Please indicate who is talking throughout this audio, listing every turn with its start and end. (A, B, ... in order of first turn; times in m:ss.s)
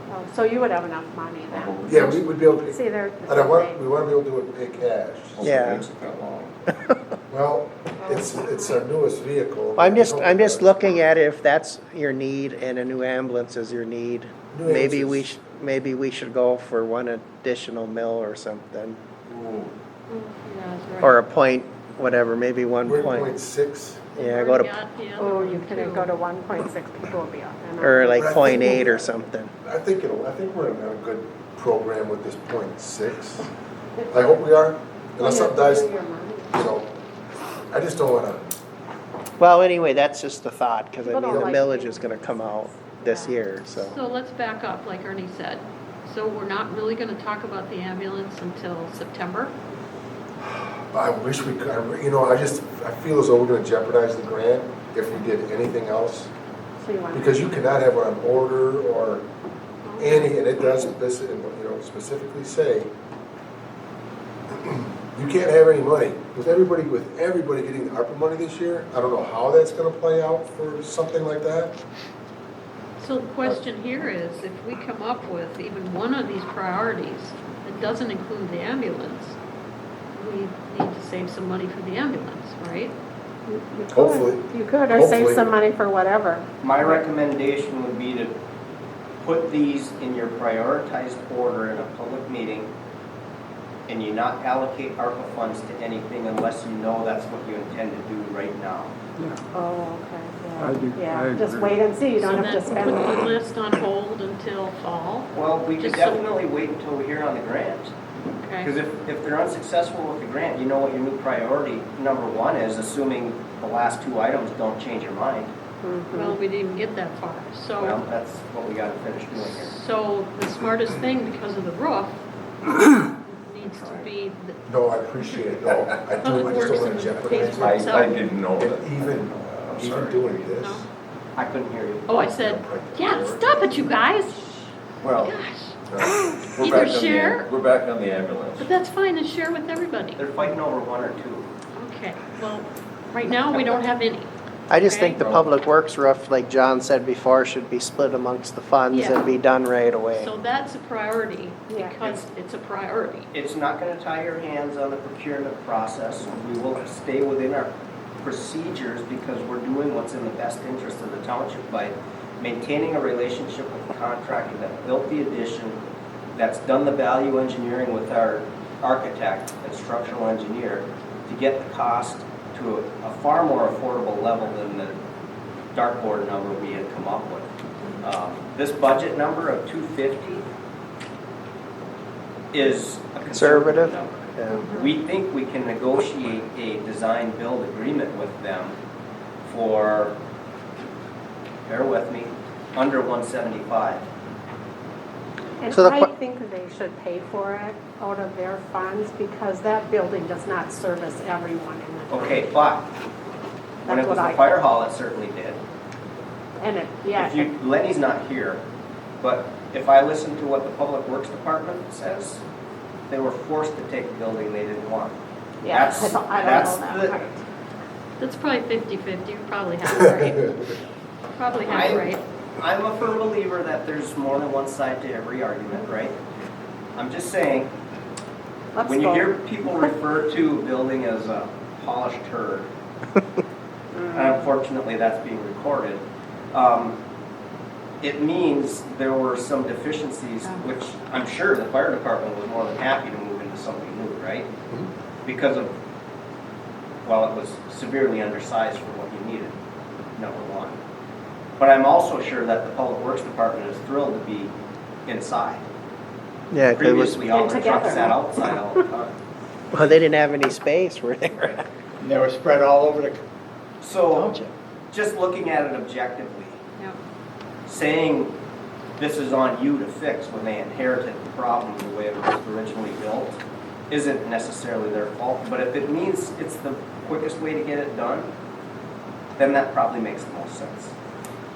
0:00.1-0:03.8 A
0:01.5-0:02.2 B
0:01.8-0:05.4 C
0:05.4-0:06.5 B
0:05.4-0:05.9 D
0:07.3-0:10.9 C
0:08.0-0:08.8 A
0:09.8-0:19.0 D
0:14.5-0:15.3 C
0:19.3-0:19.7 B
0:20.1-0:21.2 E
0:21.0-0:23.3 D
0:22.8-0:24.1 C
0:24.1-0:26.1 E
0:24.2-0:24.8 D
0:25.2-0:28.8 A
0:27.8-0:29.5 D
0:28.1-0:29.1 C
0:29.6-0:33.5 C
0:34.1-0:35.9 C
0:35.2-0:36.6 A
0:36.5-0:36.9 C
0:37.7-0:38.4 C
0:39.4-0:44.0 D
0:41.0-0:43.4 A
0:43.8-0:49.5 E
0:50.9-0:56.3 C
0:56.8-0:57.3 A
0:57.1-0:59.2 C
0:59.8-1:00.4 E
1:00.0-1:02.9 C
1:04.5-1:11.7 C
1:13.0-1:19.4 E
1:20.2-1:22.9 E
1:23.4-1:26.4 A
1:23.9-1:25.5 C
1:26.6-1:28.3 F
1:29.2-1:32.7 F
1:33.9-1:38.9 F
1:39.5-1:43.3 A
1:40.6-1:41.8 G
1:42.2-1:46.3 E
1:45.3-1:47.9 F
1:48.4-1:48.7 E
1:48.6-1:55.5 F
1:55.8-1:56.4 A
1:56.1-1:58.0 E
1:57.8-1:59.7 F
1:59.3-2:04.6 E
2:04.7-2:10.8 C
2:05.2-2:05.5 E
2:06.2-2:08.2 E
2:07.2-2:10.2 B
2:10.5-2:10.8 E
2:11.4-2:12.2 F
2:12.1-2:14.6 E
2:12.2-2:14.0 C
2:15.0-2:15.4 B
2:15.2-2:17.5 E
2:15.9-2:16.2 C
2:16.1-2:18.7 B
2:18.6-2:20.5 E
2:20.2-2:21.5 F
2:21.7-2:25.2 E
2:24.7-2:30.3 D
2:25.2-2:25.5 B
2:28.9-2:29.2 E
2:30.2-2:33.3 E
2:31.7-2:32.0 A
2:32.0-2:32.2 F
2:33.3-2:45.8 F
2:46.4-2:55.0 F
2:55.7-2:57.5 F
2:58.0-3:00.5 F
3:02.5-3:08.7 F
3:03.3-3:04.7 D
3:09.4-3:10.1 F
3:11.6-3:14.0 F
3:15.6-3:22.5 A
3:15.7-3:16.1 D
3:22.1-3:22.9 F
3:23.8-3:24.6 A
3:23.8-3:25.6 F
3:26.6-3:27.5 A
3:27.1-3:28.6 F
3:29.2-3:32.4 F
3:33.1-3:35.1 F
3:35.6-3:37.4 A
3:35.7-3:37.2 F
3:38.2-3:40.7 E
3:41.4-3:42.2 E
3:41.6-3:46.2 F
3:47.0-3:47.7 F
3:48.7-3:49.3 A
3:48.8-3:52.7 F
3:53.9-3:54.3 A
3:54.1-3:56.0 F
3:56.5-3:57.0 F
3:58.0-4:04.5 F
4:05.2-4:05.7 F
4:07.0-4:09.5 F
4:10.2-4:10.8 F
4:11.6-4:14.5 F
4:15.0-4:15.6 F
4:16.5-4:17.2 D
4:16.7-4:19.1 F
4:17.2-4:18.3 A
4:19.7-4:21.7 D
4:22.0-4:23.2 G
4:23.8-4:24.3 F
4:24.1-4:24.5 D
4:24.9-4:26.6 F
4:27.7-4:28.4 F
4:29.0-4:38.3 F
4:39.4-4:40.9 F